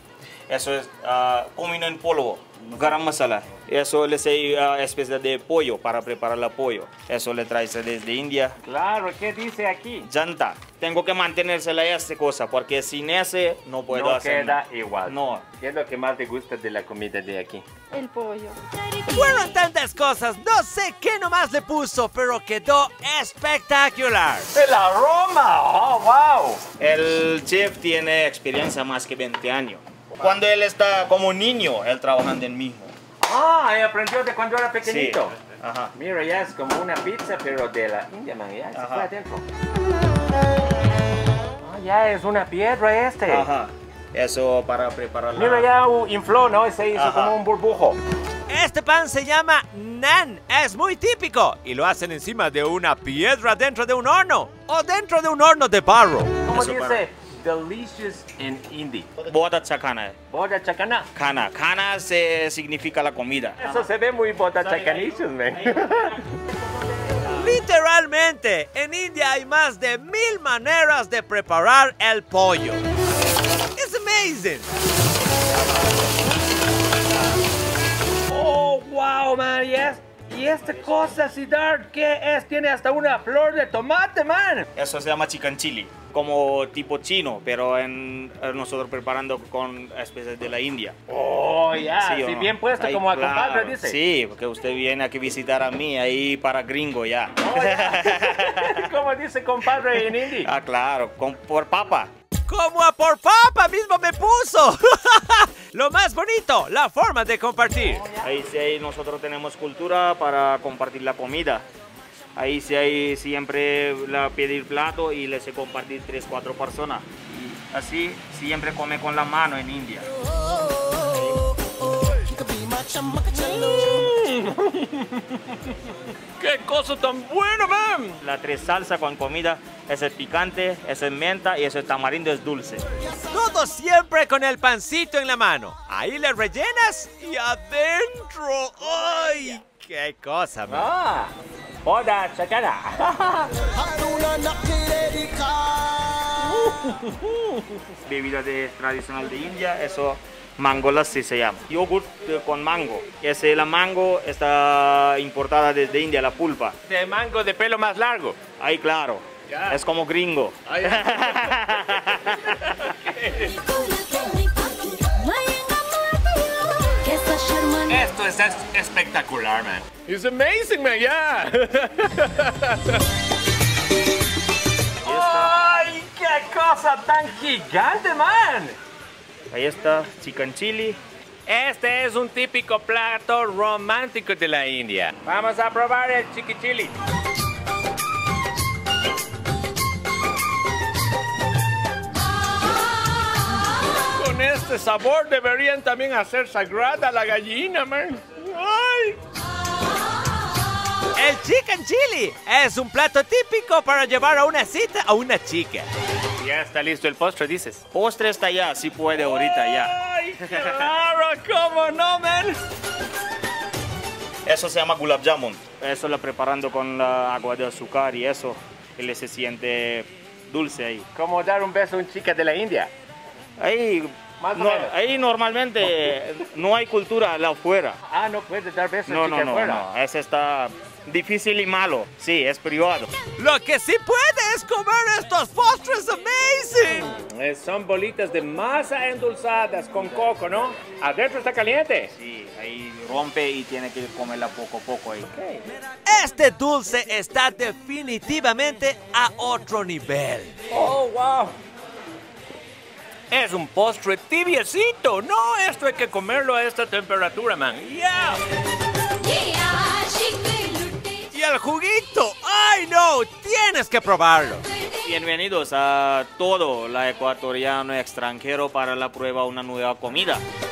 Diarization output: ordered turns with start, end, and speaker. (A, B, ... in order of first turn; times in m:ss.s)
0:00.5-0:08.6 A
0:08.6-0:10.1 B
0:10.0-0:15.4 A
0:13.9-0:17.6 B
0:17.9-0:18.6 C
0:19.1-0:24.5 D
0:24.5-0:26.6 B
0:26.8-0:32.9 A
0:33.2-0:35.4 B
0:34.8-0:35.9 A
0:35.9-0:39.4 B
0:38.7-0:39.1 A
0:41.6-0:43.5 B
0:43.3-0:45.7 A
0:45.4-0:48.0 B
0:46.9-0:47.4 A
0:48.5-0:56.4 D
0:56.4-0:59.1 B
0:56.5-0:57.0 A
0:59.2-1:00.2 A
1:00.3-1:01.1 B
1:01.1-1:03.7 A
1:03.6-1:06.4 B
1:04.7-1:06.1 A
1:07.3-1:12.8 D
1:13.8-1:14.7 D
1:18.3-1:24.7 B
1:20.7-1:21.1 A
1:24.8-1:31.0 A
1:31.1-1:34.0 B
1:32.0-1:38.9 A
1:37.4-1:40.5 B
1:40.4-1:42.1 A
1:42.5-1:48.0 D
1:47.8-1:48.3 B
1:48.2-1:51.6 A
1:52.4-2:00.1 A
2:03.3-2:05.6 B
2:06.4-2:08.2 B
2:08.2-2:12.8 A
2:13.3-2:20.9 D
2:20.7-2:23.5 B
2:26.4-2:27.4 B
2:28.0-2:36.8 A
2:36.8-2:38.4 B
2:38.6-2:42.6 A
2:39.5-2:39.8 B
2:40.7-2:43.6 B
2:43.6-2:46.3 C
2:47.0-2:48.0 C
2:47.9-2:53.0 B
2:55.0-2:58.8 B
2:55.0-2:55.5 A
2:59.5-3:01.0 A
3:01.5-3:06.9 B
3:14.1-3:19.2 B
3:21.2-3:25.9 D
3:26.4-3:27.8 B
3:27.9-3:29.9 A
3:29.2-3:32.6 B
3:30.5-3:30.8 A
3:34.4-3:41.0 A
3:41.1-3:42.9 B
3:43.6-3:48.0 A
3:44.4-3:44.9 B
3:48.1-3:49.8 B
3:49.0-3:53.1 A
3:53.4-3:57.1 D
3:57.1-4:02.1 B
4:02.1-4:05.3 A
4:05.3-4:05.6 B
4:06.0-4:10.6 D
4:10.7-4:11.6 B
4:13.3-4:17.9 B
4:17.9-4:18.4 D
4:19.3-4:21.1 C
4:21.3-4:24.6 D
4:25.0-4:30.4 A